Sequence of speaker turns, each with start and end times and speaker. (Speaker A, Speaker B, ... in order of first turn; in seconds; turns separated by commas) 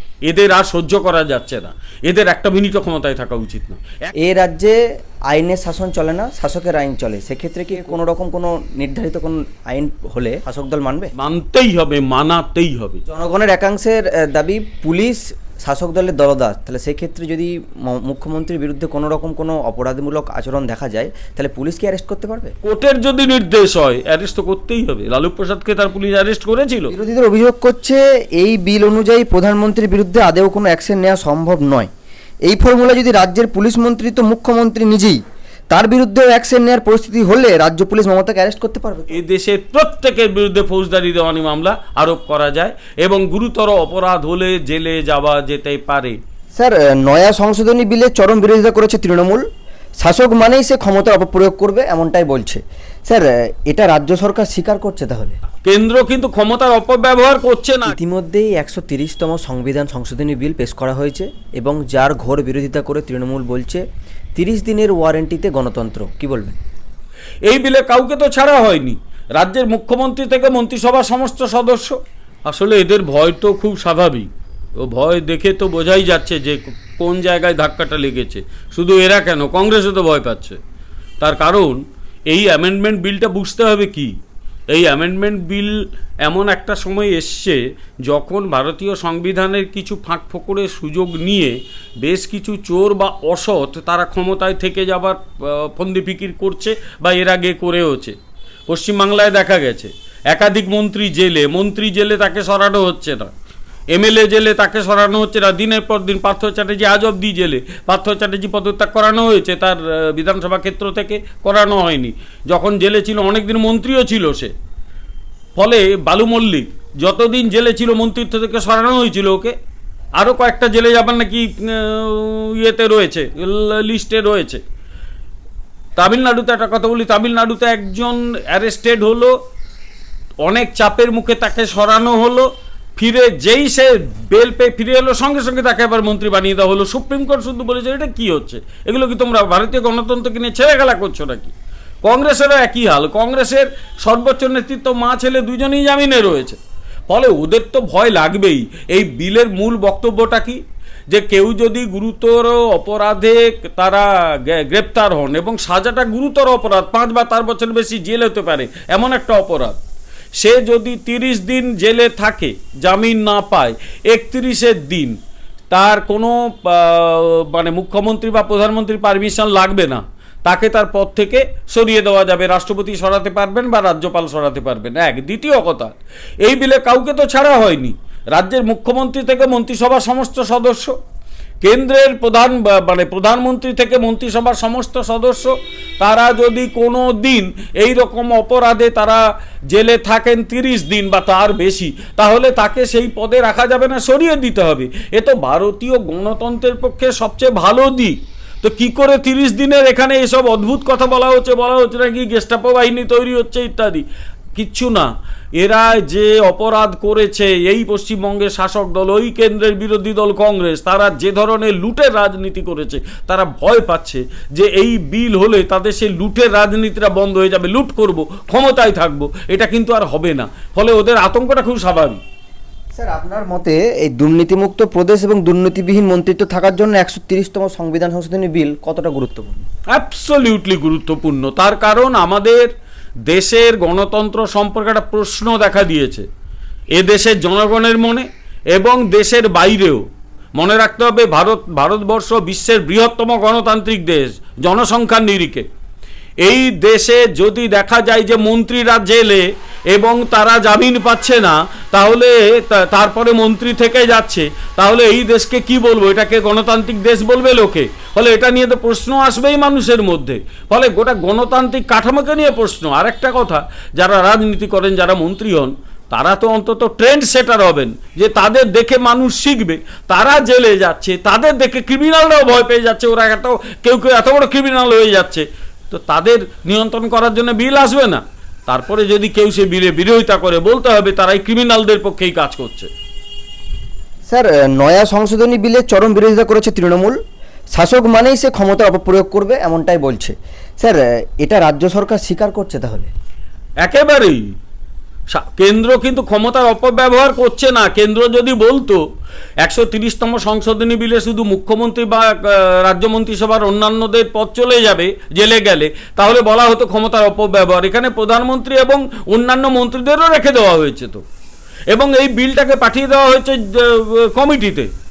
Speaker A: 0.3-4.1, Speaker B: 4.2-4.8, Speaker B: 5.3-11.1, Speaker A: 11.2-13.0, Speaker B: 13.1-22.5, Speaker A: 22.6-26.9, Speaker B: 26.9-31.9, Speaker B: 32.5-35.2, Speaker B: 35.7-39.2, Speaker A: 39.1-46.2, Speaker B: 46.6-49.4, Speaker B: 50.0-55.4, Speaker A: 55.6-58.0, Speaker B: 57.9-63.8, Speaker B: 64.4-66.6, Speaker A: 67.5-74.3, Speaker A: 74.8-80.6, Speaker A: 81.2-84.1, Speaker A: 84.7-98.2, Speaker A: 98.7-103.3, Speaker A: 103.9-114.5, Speaker A: 115.6-119.5, Speaker A: 120.2-124.6, Speaker A: 126.0-129.3, Speaker A: 130.4-141.5, Speaker A: 142.0-159.8, Speaker A: 160.4-165.2, Speaker A: 165.7-181.0, Speaker A: 181.6-204.1, Speaker A: 204.6-222.2, Speaker B: 222.9-229.6, Speaker A: 229.9-232.7, Speaker A: 233.3-236.3, Speaker A: 236.9-240.0, Speaker A: 240.6-245.7, Speaker A: 246.4-282.9, Speaker B: 284.3-287.2, Speaker B: 287.7-293.1, Speaker A: 293.8-294.4, Speaker A: 295.3-299.0, Speaker A: 299.6-311.2, Speaker A: 311.9-314.9